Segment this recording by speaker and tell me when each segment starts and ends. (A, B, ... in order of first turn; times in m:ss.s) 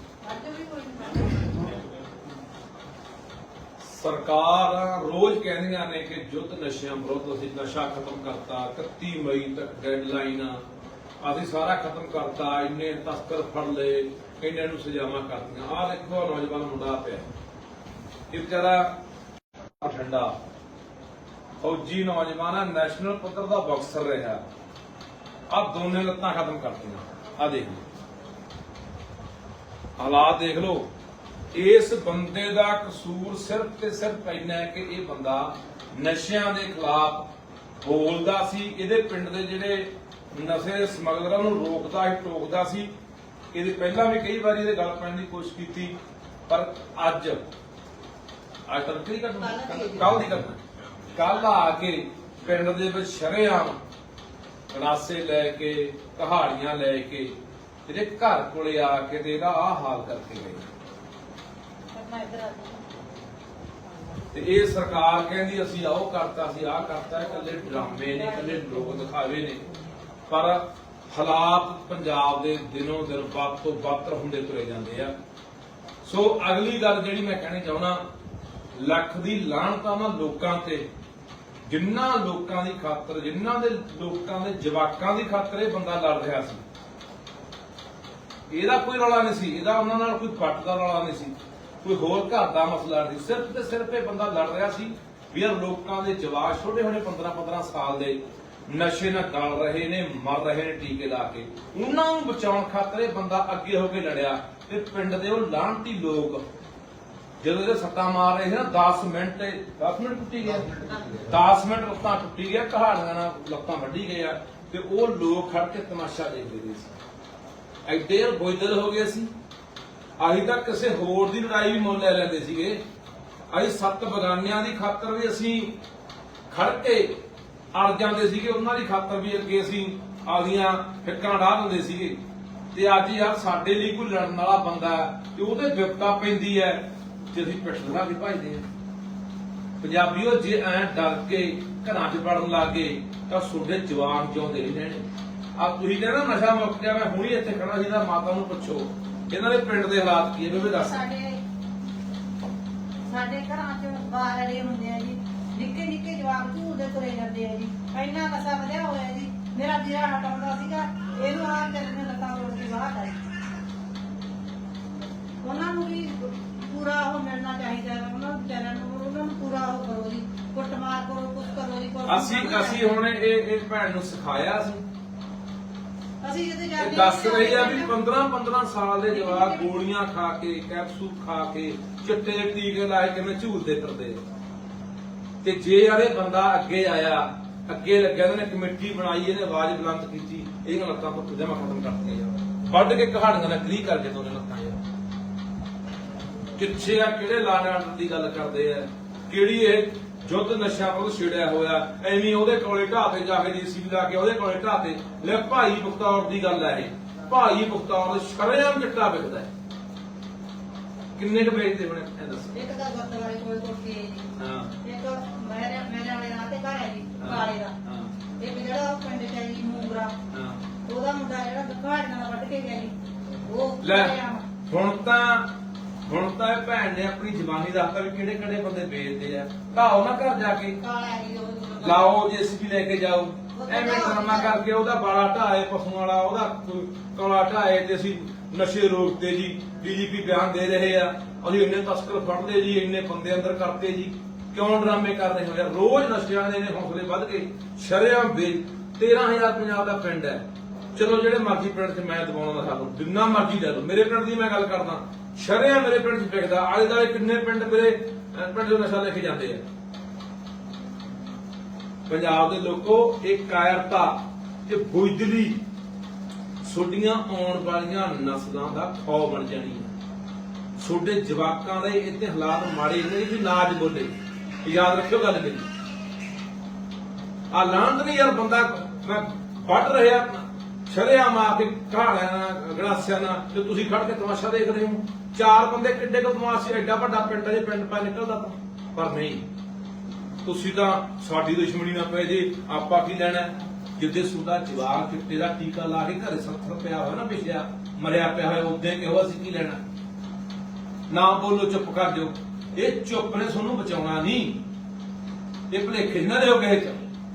0:00.2-0:01.5 A
0:03.8-0:10.6 B
0:11.2-0:17.3 B
0:18.3-0:18.9 B
0:19.8-0:20.4 B
0:21.6-0:24.4 B
0:25.5-0:27.8 B
0:30.0-0:30.9 B
0:31.5-0:37.3 B
0:37.8-0:42.9 B
0:43.5-0:46.0 B
0:46.5-0:47.4 B
0:48.7-0:50.6 B
0:49.4-0:50.1 A
0:51.1-0:53.8 B
0:54.7-1:00.7 B
1:01.9-1:02.8 A
1:04.3-1:09.6 B
1:10.3-1:15.1 B
1:16.0-1:18.0 B
1:18.7-1:20.9 B
1:21.7-1:26.6 B
1:28.5-1:46.4 B
1:47.4-1:57.0 B
1:57.9-1:59.3 B
2:00.2-2:02.8 B
2:03.5-2:05.8 B
2:06.5-2:07.2 B
2:07.7-2:12.2 B
2:12.7-2:18.7 B
2:19.8-2:31.0 B
2:30.5-2:31.4 A
2:33.1-2:43.2 A
2:45.4-2:52.8 A
2:52.1-2:54.8 B
2:56.2-2:57.9 A
2:56.8-3:04.2 B
2:59.1-2:59.7 A
3:05.4-3:14.8 B
3:16.6-3:29.5 B
3:31.2-3:32.7 B
3:32.5-3:34.3 A
3:34.4-3:34.7 B
3:34.8-3:37.8 A
3:37.2-3:38.1 B
3:38.4-3:40.2 A
3:40.3-3:40.6 B
3:40.9-3:43.0 A
3:43.5-3:44.5 A
3:43.8-3:45.5 B
3:46.1-3:50.8 B
3:50.8-3:52.2 A
3:51.8-4:19.6 B
3:53.6-3:54.6 A
4:22.1-4:25.6 B
4:26.6-4:29.9 B
4:30.8-4:35.7 B
4:37.5-4:49.5 B
4:50.4-4:59.8 B
5:01.1-5:04.6 B
5:05.7-5:07.0 B